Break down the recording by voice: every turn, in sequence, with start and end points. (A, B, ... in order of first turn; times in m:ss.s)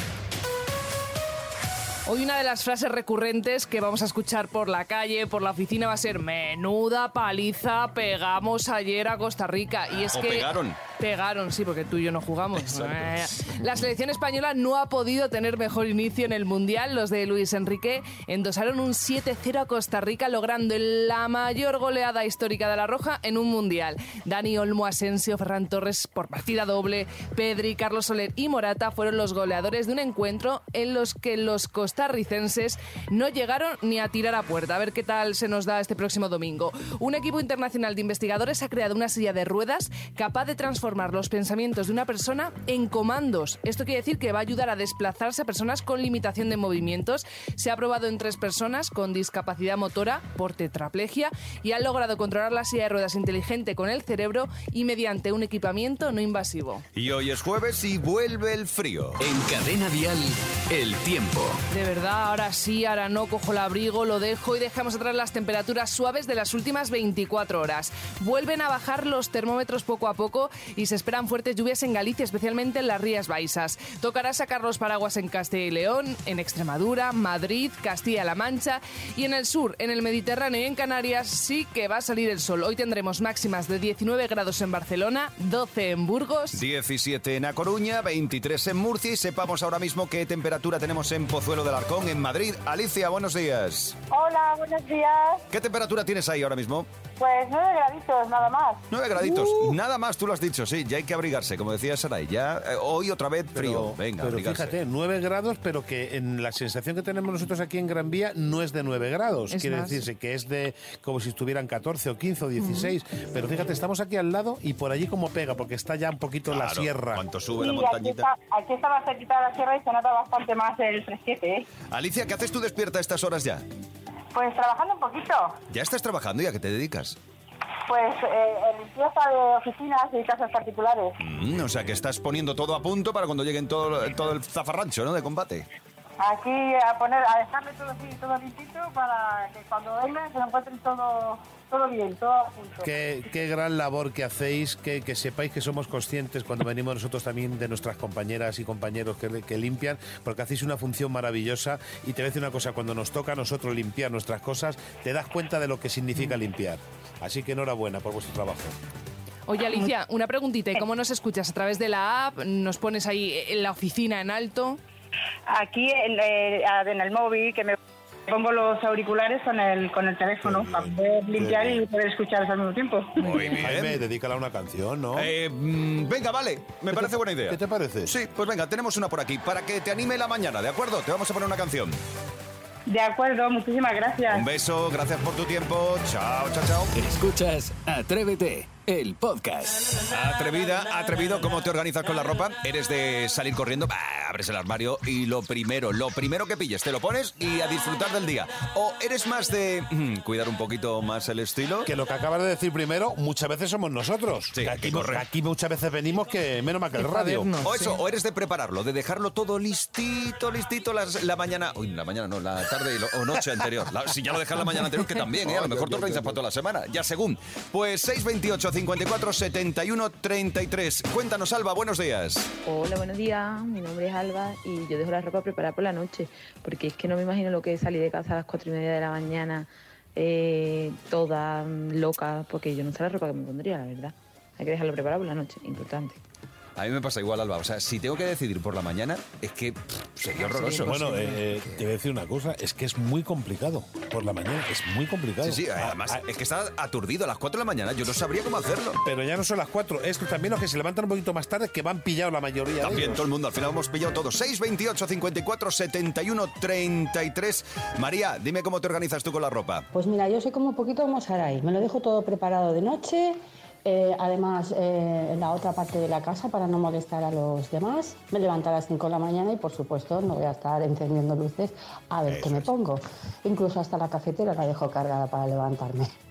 0:02.0-0:56.8 A
0:10.1-0:10.8 B
0:56.9-0:59.2 B
0:59.2-1:01.6 C
1:01.7-1:26.6 A
1:26.5-1:34.0 B
1:34.1-1:35.4 D
1:35.5-1:36.9 B
1:37.2-1:38.8 D
1:38.9-1:44.7 B
1:43.5-1:57.2 E
1:49.5-1:50.0 A
1:56.5-1:58.3 B
1:57.5-2:01.7 D
2:01.9-2:03.6 B
2:04.3-2:05.6 D
2:05.7-2:07.2 B
2:07.9-2:11.2 D
2:11.2-2:15.7 B
2:16.2-2:23.0 D
2:22.8-2:38.8 E
2:39.5-2:44.8 A
2:45.5-2:47.8 D
2:48.3-2:53.2 D
2:50.4-2:51.8 E
2:53.2-2:53.7 A
2:53.2-2:54.0 B
2:53.6-2:55.3 E
2:55.1-3:02.0 B
2:57.5-2:58.1 E
3:02.9-3:04.5 D
3:04.3-3:06.9 B
3:06.9-3:10.0 C
3:10.1-3:21.9 B
3:21.8-3:27.6 E
3:24.5-3:25.2 B
3:27.0-3:28.0 A
3:27.6-3:42.5 B
3:35.4-3:36.4 E
3:42.6-3:56.2 F
3:56.8-4:01.1 B
4:00.4-4:01.4 A
4:00.8-4:06.2 E
4:05.4-4:09.0 B
4:09.0-4:13.2 E
4:12.8-4:19.9 B
4:19.9-4:36.1 G
4:32.3-4:32.7 B